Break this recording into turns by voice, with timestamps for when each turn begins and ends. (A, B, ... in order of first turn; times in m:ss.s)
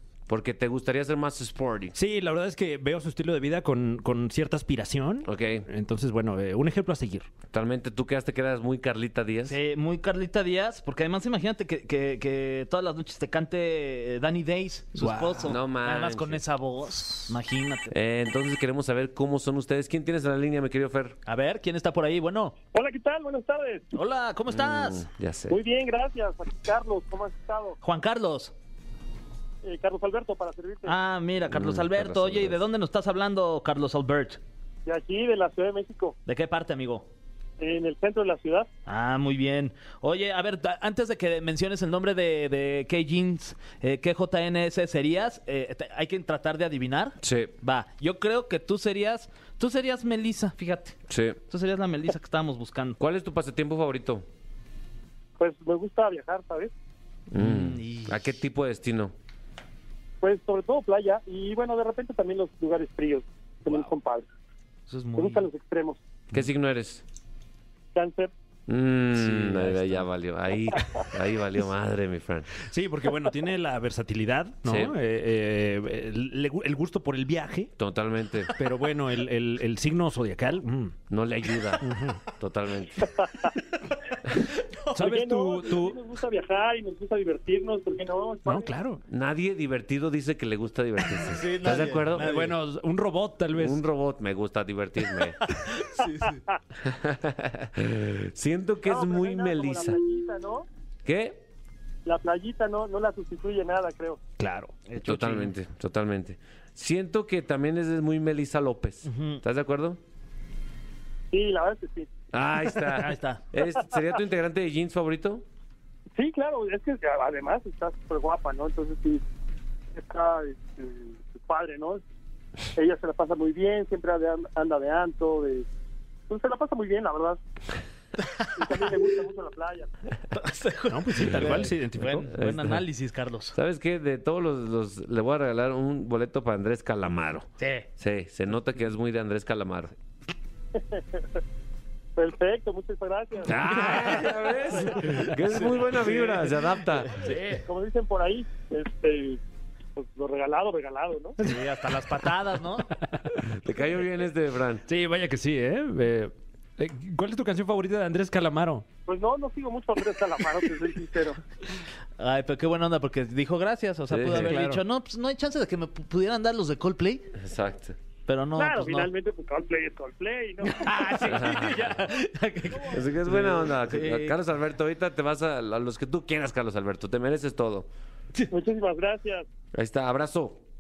0:00.3-0:01.9 A
0:01.9-0:07.3 B
0:05.2-0:05.7 A
0:07.5-0:09.6 A
0:09.5-0:17.9 C
0:15.0-0:15.4 B
0:15.4-0:16.4 A
0:17.9-0:21.2 A
0:21.2-0:22.6 C
0:22.7-0:23.9 D
0:23.9-0:25.0 C
0:24.5-0:25.6 A
0:25.5-0:27.8 D
0:27.8-0:28.5 C
0:29.6-0:31.0 D
0:30.8-0:34.4 C
0:31.5-0:32.6 A
0:34.8-0:36.1 D
0:36.2-0:37.1 C
0:37.6-0:38.7 D
0:38.9-0:53.0 C
0:47.2-0:47.5 A
0:51.1-0:51.4 A
0:53.0-0:54.2 A
0:55.4-0:56.7 D
0:57.3-0:59.1 A
0:57.4-0:58.2 C
1:00.2-1:04.3 D
1:04.9-1:05.5 C
1:05.2-1:06.0 D
1:06.3-1:07.0 A
1:07.9-1:08.3 D
1:08.7-1:12.5 A
1:09.2-1:10.0 C
1:12.6-1:17.7 B
1:14.6-1:14.9 A
1:17.8-1:18.5 A
1:18.6-1:21.0 B
1:21.1-1:23.1 A
1:21.8-1:22.2 B
1:23.2-1:23.5 D
1:24.8-1:25.1 C
1:24.9-1:26.0 B
1:25.0-1:28.7 D
1:28.4-1:29.0 B
1:29.1-1:32.3 A
1:31.2-1:32.6 C
1:32.2-1:33.8 B
1:33.6-1:35.4 A
1:35.4-1:36.4 C
1:36.0-1:36.6 D
1:36.8-1:40.0 A
1:38.8-1:40.6 D
1:41.0-1:41.4 A
1:42.0-1:44.2 D
1:44.4-1:44.9 B
1:44.9-1:45.4 C
1:45.0-1:50.0 A
1:49.1-1:49.4 C
1:51.3-1:52.1 D
1:52.3-1:55.4 A
1:52.9-1:53.4 C
1:56.2-1:59.2 D
1:59.9-2:02.0 D
2:02.8-2:05.6 D
2:06.3-2:07.4 D
2:08.6-2:09.9 D
2:10.3-2:13.6 C
2:10.9-2:12.3 B
2:12.4-2:12.8 A
2:13.5-2:19.9 A
2:17.6-2:17.9 C
2:22.2-2:23.6 D
2:23.4-2:27.1 A
2:25.1-2:26.1 C
2:27.1-2:27.6 C
2:27.6-2:29.4 D
2:30.0-2:31.4 D
2:31.4-2:32.9 C
2:33.4-2:34.8 A
2:34.9-2:38.8 B
2:39.0-2:41.4 D
2:42.2-2:47.3 C
2:44.1-2:44.6 A
2:44.3-2:44.8 B
2:47.4-2:48.0 A
2:48.3-2:49.1 C
2:48.6-2:51.0 D
2:50.7-2:54.4 C
2:51.3-2:51.8 A
2:52.7-2:53.0 D
2:52.9-2:57.9 A
2:58.5-2:59.4 D
2:59.7-3:00.6 A